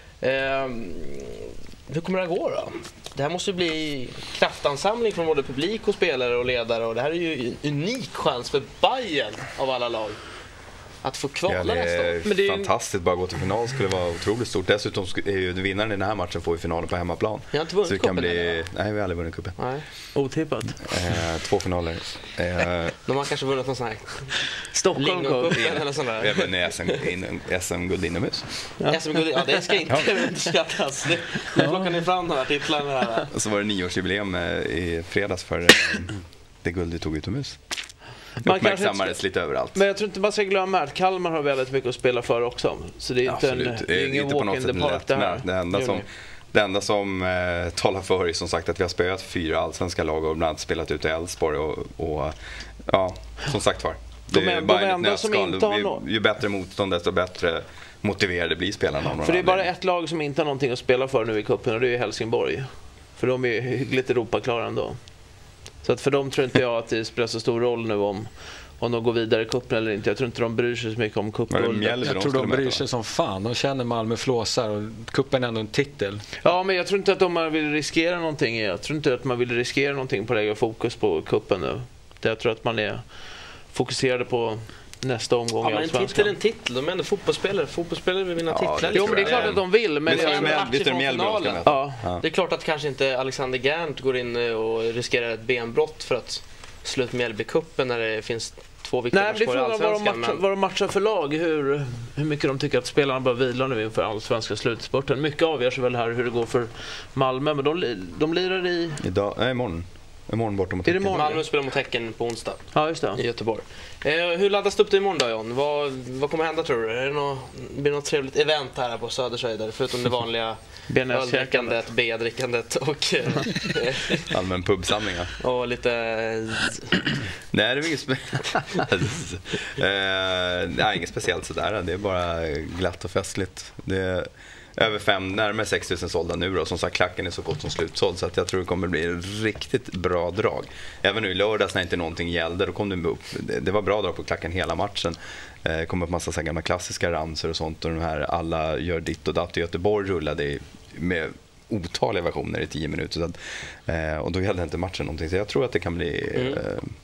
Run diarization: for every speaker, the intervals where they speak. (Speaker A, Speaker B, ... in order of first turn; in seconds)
Speaker A: 0.2-10.2, 11.0-12.2, 17.5-18.6, 19.6-19.8, 23.1-24.4, 24.9-27.0, 28.9-33.3, 85.6-100.4, 111.1-112.6, 113.1-124.3, 125.4-127.2, 156.3-156.6
Speaker B: 11.5-19.6, 20.8-22.9, 25.6-28.5, 29.9-30.1, 33.3-37.6, 38.4-39.8, 43.3-52.4, 52.9-59.7, 71.5-72.8, 88.5-92.2, 109.0-111.3, 124.3-125.3, 127.5-156.9
Speaker C: 12.2-12.7, 20.1-20.8, 24.7-25.7, 38.4-39.2, 39.7-46.0, 54.3-56.0, 59.1-65.0, 65.8-72.0, 76.4-83.0, 83.7-86.3, 88.9-90.6, 91.6-92.0, 99.1-109.0, 110.8-111.4, 112.7-113.2, 120.9-121.8
Speaker D: 72.0-76.2